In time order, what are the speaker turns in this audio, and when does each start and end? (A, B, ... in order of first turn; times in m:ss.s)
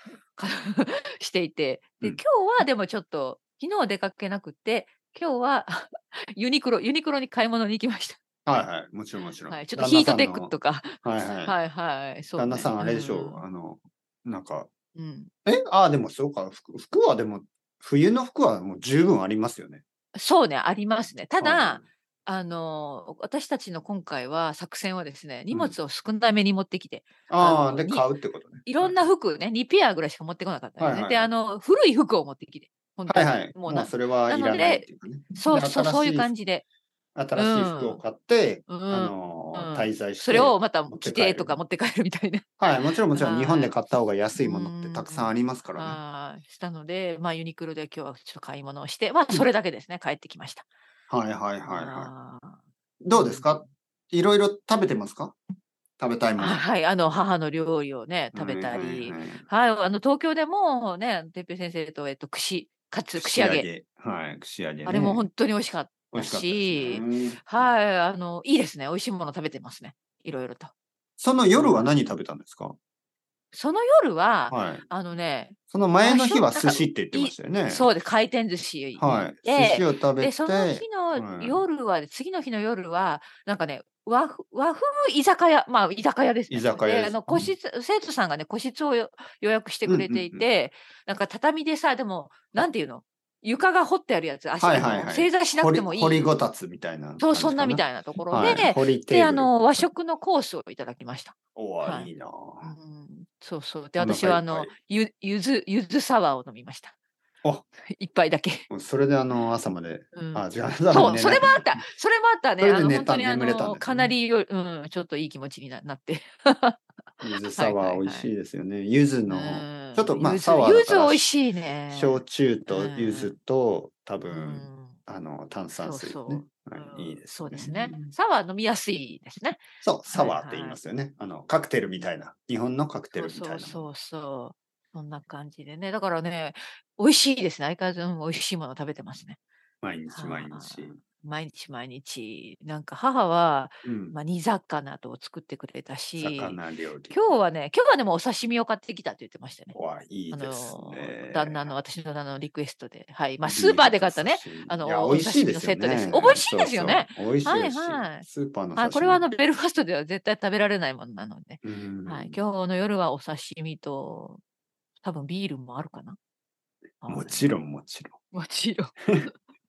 0:00.4-0:08.2 A
0:08.4-0:11.6 B
0:09.5-0:13.4 A
0:12.4-0:14.7 B
0:14.9-0:15.3 A
0:15.4-0:19.8 B
0:20.2-0:28.1 A
0:21.4-0:21.8 B
0:25.5-0:25.8 B
0:27.3-0:29.0 B
0:28.6-0:36.6 A
0:30.8-0:31.3 B
0:33.1-0:36.3 B
0:37.1-0:41.6 B
0:37.3-0:38.0 A
0:38.7-0:42.4 A
0:42.6-0:46.0 B
0:43.1-0:43.7 A
0:44.4-0:50.6 A
0:51.1-0:52.1 B
0:51.7-0:52.6 A
0:53.0-0:55.4 B
0:53.1-0:53.5 A
0:56.0-0:56.6 B
0:56.4-1:03.7 A
0:58.3-0:59.4 B
1:03.2-1:05.3 B
1:04.8-1:10.7 A
1:06.1-1:07.6 B
1:11.2-1:12.8 B
1:11.5-1:12.0 A
1:13.5-1:36.3 A
1:14.5-1:14.8 B
1:15.7-1:17.9 B
1:19.0-1:21.6 B
1:26.5-1:27.5 B
1:29.8-1:30.5 B
1:34.6-1:39.5 B
1:37.2-1:42.1 A
1:41.6-1:42.7 B
1:42.6-1:46.9 A
1:44.0-1:44.7 B
1:47.8-1:48.6 A
1:48.7-1:51.8 B
1:50.1-1:56.8 A
1:52.6-1:54.1 B
1:57.2-2:01.2 B
1:57.5-1:58.3 A
1:59.3-2:03.3 A
2:01.9-2:08.0 B
2:04.3-2:05.0 A
2:05.7-2:10.8 A
2:09.8-2:13.9 B
2:13.1-2:19.4 A
2:19.8-2:21.0 B
2:20.1-2:26.6 A
2:23.8-2:24.2 B
2:26.2-2:27.1 B
2:27.1-2:29.8 A
2:29.7-2:31.7 B
2:30.3-2:38.2 A
2:33.4-2:39.3 B
2:38.8-2:44.4 A
2:41.6-2:42.4 B
2:45.0-2:46.2 A
2:47.0-2:47.5 A
2:47.1-2:48.2 B
2:48.3-2:49.3 A